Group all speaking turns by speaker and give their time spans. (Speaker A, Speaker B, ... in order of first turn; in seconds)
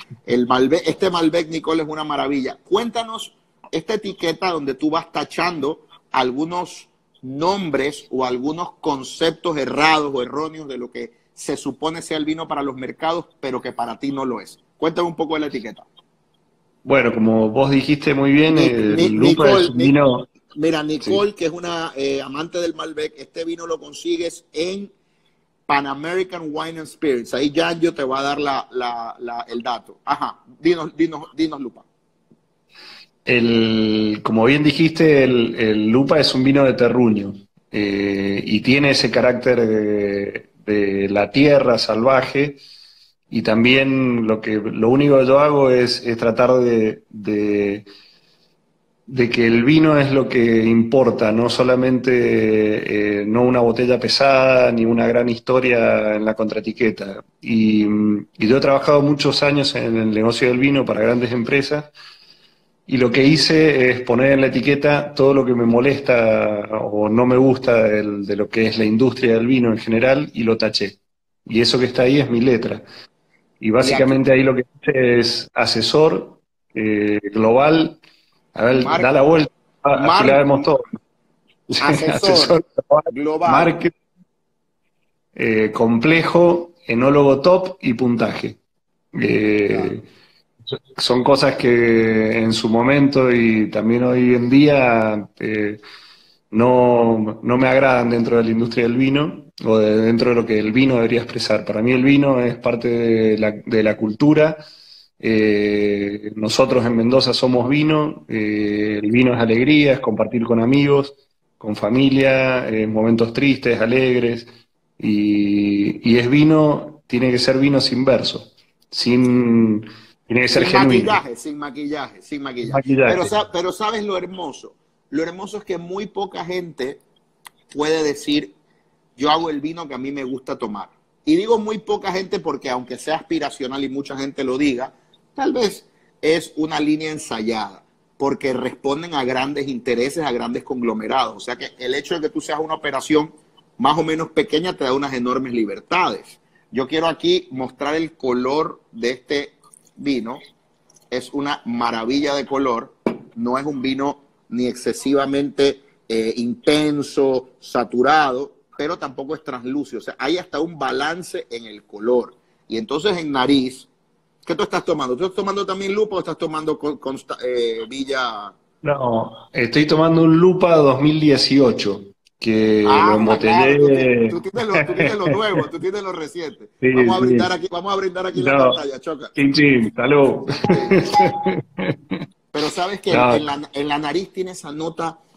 Speaker A: 0.3-15.8, 18.5-19.9, 20.5-24.9, 25.7-31.9, 73.8-74.2, 78.8-79.1, 79.9-80.7, 81.8-82.6, 83.1-83.8, 120.5-127.0, 127.7-128.5, 129.2-150.4, 151.1-163.9, 164.4-168.5, 172.8-179.9, 180.5-181.3, 182.5-185.2
Speaker B: 16.8-20.3, 33.2-42.6, 43.3-47.9, 49.1-61.9, 62.9-72.8, 73.6-78.0, 78.5-80.9, 81.7-83.9, 85.3-88.6, 89.1-90.0, 90.7-95.8, 96.5-104.6, 105.2-121.2, 122.6-123.3, 168.8-175.6, 176.8-177.5, 178.3-178.8, 179.3-182.2, 183.1-183.4